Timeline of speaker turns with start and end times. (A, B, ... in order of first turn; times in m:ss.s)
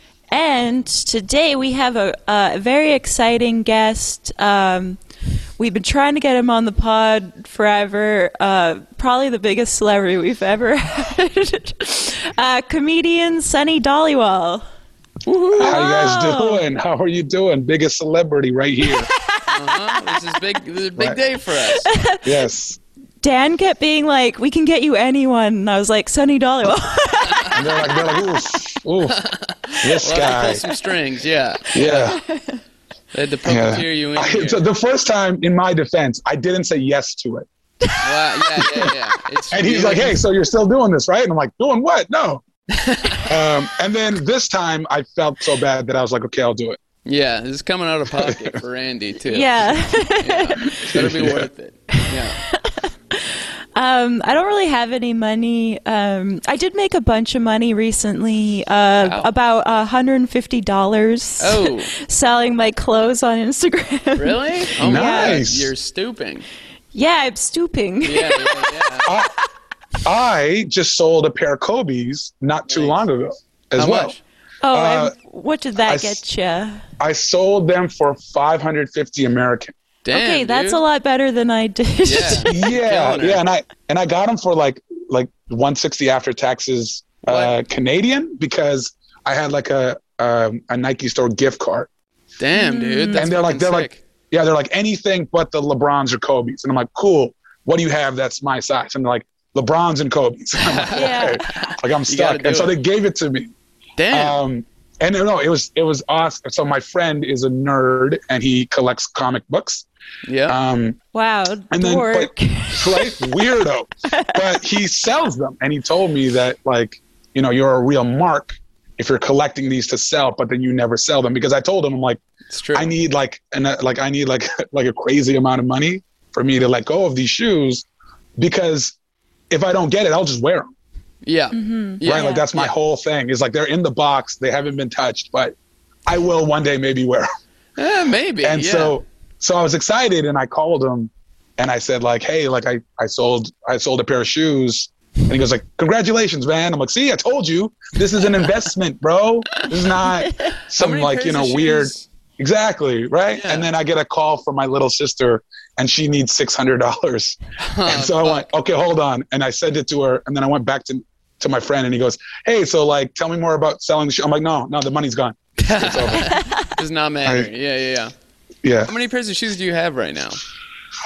0:00.3-0:05.0 A
0:05.6-0:14.6 A
0:15.2-0:15.8 B
0:15.6-0:19.1 C
0:15.6-0:16.6 A
0:18.8-0:20.0 A
0:19.5-0:21.9 B
0:21.0-0:21.2 C
0:21.8-0:22.2 A
0:22.2-0:22.8 C
0:23.2-0:28.4 A
0:27.5-0:29.2 C
0:29.1-0:32.2 B
0:29.8-0:30.6 C
0:31.7-0:32.2 C
0:32.3-0:32.6 A
0:33.1-0:34.6 B
0:33.4-0:37.4 C
0:37.8-0:38.3 A
0:38.0-0:40.2 B
0:38.6-0:38.9 C
0:39.5-0:42.4 C
0:42.7-0:43.3 B
0:43.2-0:46.8 C
0:47.0-0:52.4 B
0:48.2-0:48.6 C
0:49.3-0:50.8 A
0:50.8-0:51.5 C
0:51.9-1:05.4 A
0:59.0-0:59.3 B
1:01.4-1:01.9 B
1:04.2-1:06.5 B
1:04.8-1:05.7 C
1:06.9-1:08.9 A
1:08.0-1:09.1 B
1:09.0-1:09.3 C
1:10.0-1:14.1 C
1:12.7-1:13.0 B
1:13.8-1:14.2 B
1:14.6-1:16.8 A
1:14.7-1:15.1 C
1:15.8-1:16.2 C
1:17.0-1:19.7 C
1:20.0-1:20.8 B
1:20.1-1:22.7 A
1:22.0-1:23.4 B
1:22.5-1:31.9 C
1:27.2-1:27.5 B
1:32.4-1:34.0 B
1:32.5-1:33.2 A
1:33.2-1:43.5 C
1:40.6-1:42.7 B
1:40.9-1:41.4 A
1:44.0-1:44.4 B
1:44.1-1:49.8 C
1:50.2-1:50.6 B
1:50.5-1:51.0 C
1:51.1-1:53.2 A
1:51.7-2:02.2 C
2:02.5-2:02.9 B
2:02.7-2:07.8 C
2:08.4-2:09.0 C
2:09.5-2:10.7 C
2:11.2-2:12.7 B
2:11.5-2:12.4 A
2:12.0-2:15.5 C
2:16.0-2:17.3 C
2:17.8-2:19.0 B
2:18.4-2:46.3 C
2:30.7-2:32.1 B
2:33.3-2:33.7 B
2:37.6-2:38.5 B
2:45.6-2:48.1 B
2:46.3-2:46.7 A
2:48.6-2:48.9 C
2:48.8-2:50.4 B